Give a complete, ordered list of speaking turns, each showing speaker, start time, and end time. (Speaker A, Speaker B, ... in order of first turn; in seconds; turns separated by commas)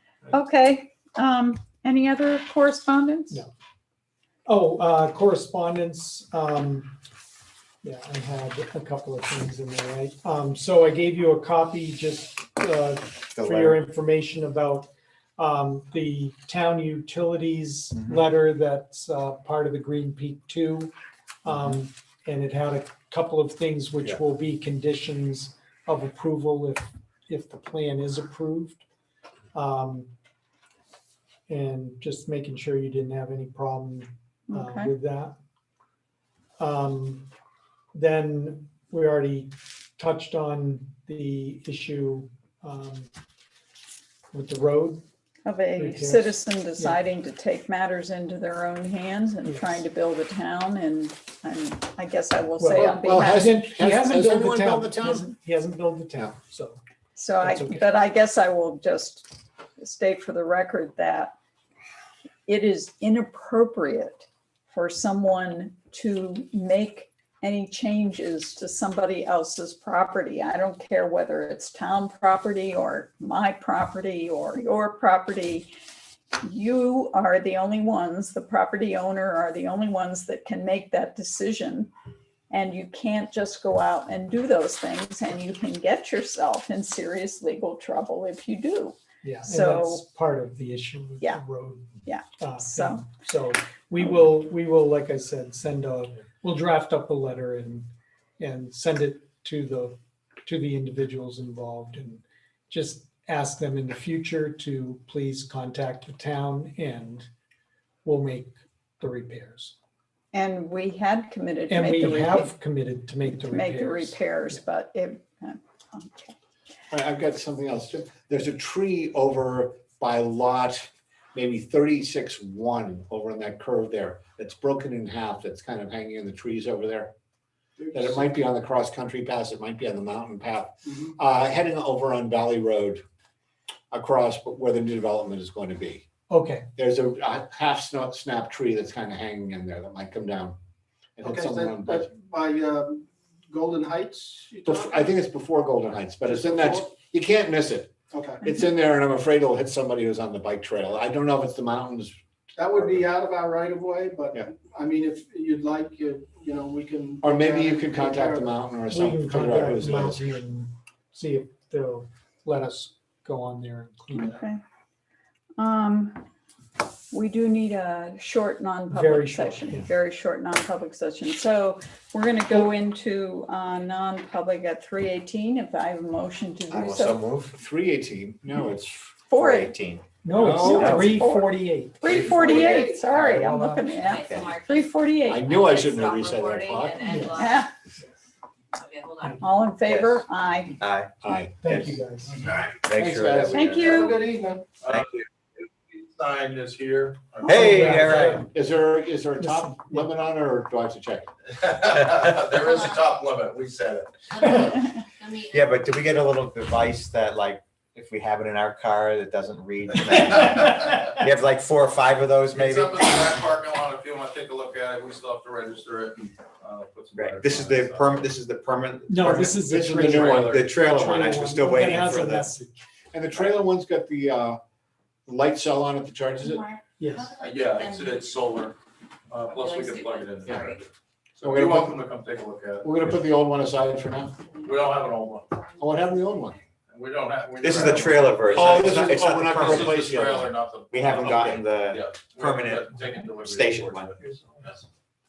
Speaker A: 0.3-3.4, Speaker B: 4.5-6.9, Speaker B: 7.8-20.9, Speaker C: 13.3-13.8, Speaker B: 21.4-28.8, Speaker B: 29.5-30.1, Speaker B: 31.5-35.3, Speaker A: 34.5-34.9, Speaker B: 36.6-37.2, Speaker B: 37.9-43.1, Speaker B: 44.3-45.0, Speaker A: 45.5-53.5, Speaker B: 45.7-47.0, Speaker B: 49.4-49.8, Speaker B: 52.6-56.8, Speaker D: 52.8-55.3, Speaker A: 57.1-61.3, Speaker B: 57.4-57.9, Speaker A: 62.5-75.7, Speaker A: 76.4-81.9, Speaker A: 82.5-90.0, Speaker B: 89.2-97.9, Speaker A: 92.0-93.1, Speaker B: 98.4-107.3, Speaker B: 108.0-109.7, Speaker A: 110.3-112.5, Speaker B: 111.7-114.6, Speaker A: 113.4-116.3, Speaker D: 116.9-127.1, Speaker E: 127.8-128.2, Speaker D: 127.9-133.0, Speaker D: 133.9-136.1, Speaker B: 136.3-136.7, Speaker D: 136.8-140.6, Speaker D: 141.2-142.1, Speaker E: 141.3-145.1, Speaker D: 144.7-152.1, Speaker E: 146.3-146.9, Speaker E: 148.1-148.4, Speaker E: 152.6-158.5, Speaker D: 152.7-153.1, Speaker D: 157.2-160.2, Speaker B: 158.9-164.4, Speaker A: 164.1-164.6, Speaker A: 165.6-166.2, Speaker A: 167.1-177.2, Speaker B: 168.9-169.9, Speaker C: 176.7-177.5, Speaker D: 177.5-179.1, Speaker A: 179.3-179.8, Speaker C: 179.3-180.0, Speaker B: 180.2-182.3, Speaker D: 180.3-181.0, Speaker A: 180.4-185.4, Speaker C: 180.8-181.2, Speaker B: 183.2-183.8, Speaker F: 184.0-187.7, Speaker C: 184.2-184.5, Speaker D: 185.2-187.0, Speaker B: 187.0-187.4, Speaker A: 187.3-187.7, Speaker F: 188.7-189.5, Speaker A: 189.4-190.8, Speaker C: 189.9-190.2, Speaker C: 190.8-191.1, Speaker D: 191.2-192.0, Speaker B: 191.6-192.4, Speaker D: 192.8-193.6, Speaker C: 192.8-193.9, Speaker A: 193.5-194.2, Speaker E: 193.8-194.8, Speaker G: 194.8-195.1, Speaker C: 194.8-195.2, Speaker G: 195.6-198.3, Speaker C: 197.4-198.5, Speaker B: 197.4-198.5, Speaker D: 198.5-201.3, Speaker B: 199.4-200.1, Speaker G: 201.5-204.8, Speaker F: 204.3-205.7, Speaker C: 205.4-213.3, Speaker G: 210.7-211.0, Speaker G: 212.5-218.3, Speaker C: 217.2-222.5, Speaker B: 219.1-222.8, Speaker D: 219.6-220.6, Speaker D: 223.1-224.6, Speaker D: 225.2-226.7, Speaker F: 226.5-228.3, Speaker B: 227.0-227.3, Speaker G: 227.4-228.8, Speaker G: 229.3-230.8, Speaker F: 229.5-230.8, Speaker D: 231.4-231.9, Speaker G: 231.4-233.1, Speaker D: 232.8-234.3, Speaker G: 234.6-235.6, Speaker D: 235.8-236.6, Speaker G: 236.9-238.7, Speaker C: 237.6-239.9, Speaker D: 238.5-240.5, Speaker G: 239.6-244.8, Speaker C: 240.9-242.9, Speaker C: 243.4-244.1, Speaker B: 244.2-244.8